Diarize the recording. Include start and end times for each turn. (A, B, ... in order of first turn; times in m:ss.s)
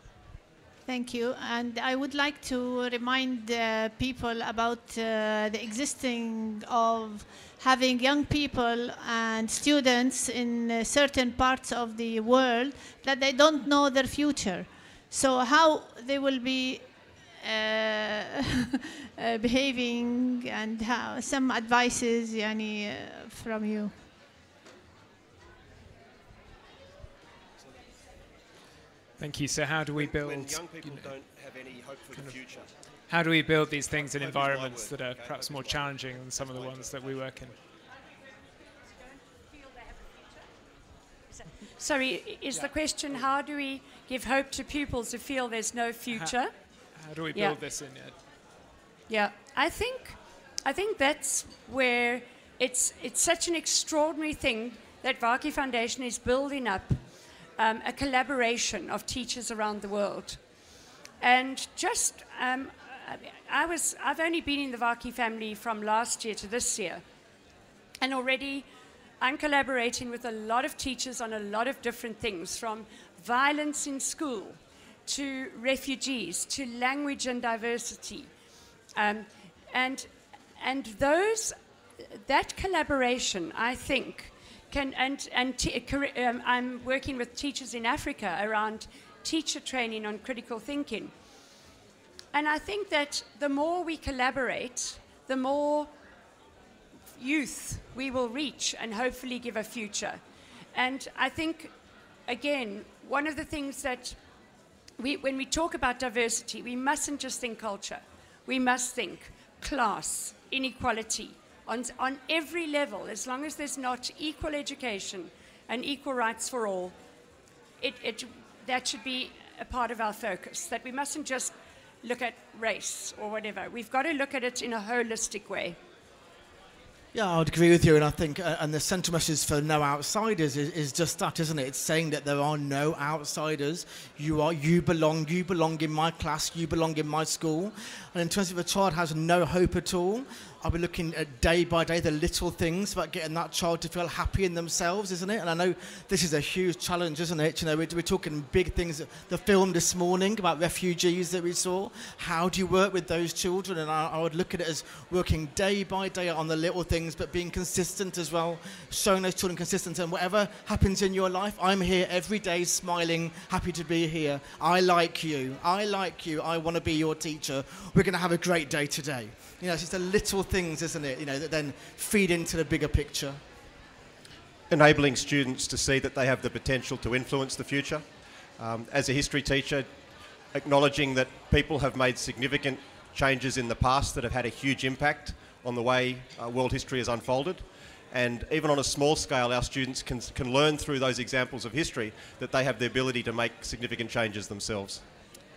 0:00.8-0:16.8 A
0:17.4-0:18.7 A
0:19.2-0:23.9 A
0:29.2-0:31.1 B
0:29.9-0:32.7 C
0:33.1-0:37.5 B
0:33.9-0:37.3 C
0:41.8-0:46.5 D
0:46.1-0:46.4 B
0:47.0-0:48.1 B
0:49.1-0:57.0 D
0:57.6-1:00.4 D
1:01.2-1:07.0 D
1:08.0-1:08.7 D
1:09.2-1:18.3 D
1:18.9-1:31.1 D
1:32.3-1:35.9 D
1:37.1-1:40.2 D
1:40.7-1:41.7 D
1:42.3-1:44.2 D
1:45.0-1:56.9 D
1:57.8-2:05.8 D
2:07.1-2:53.4 E
2:54.7-2:58.1 C
2:58.6-2:59.9 C
3:00.5-3:15.0 C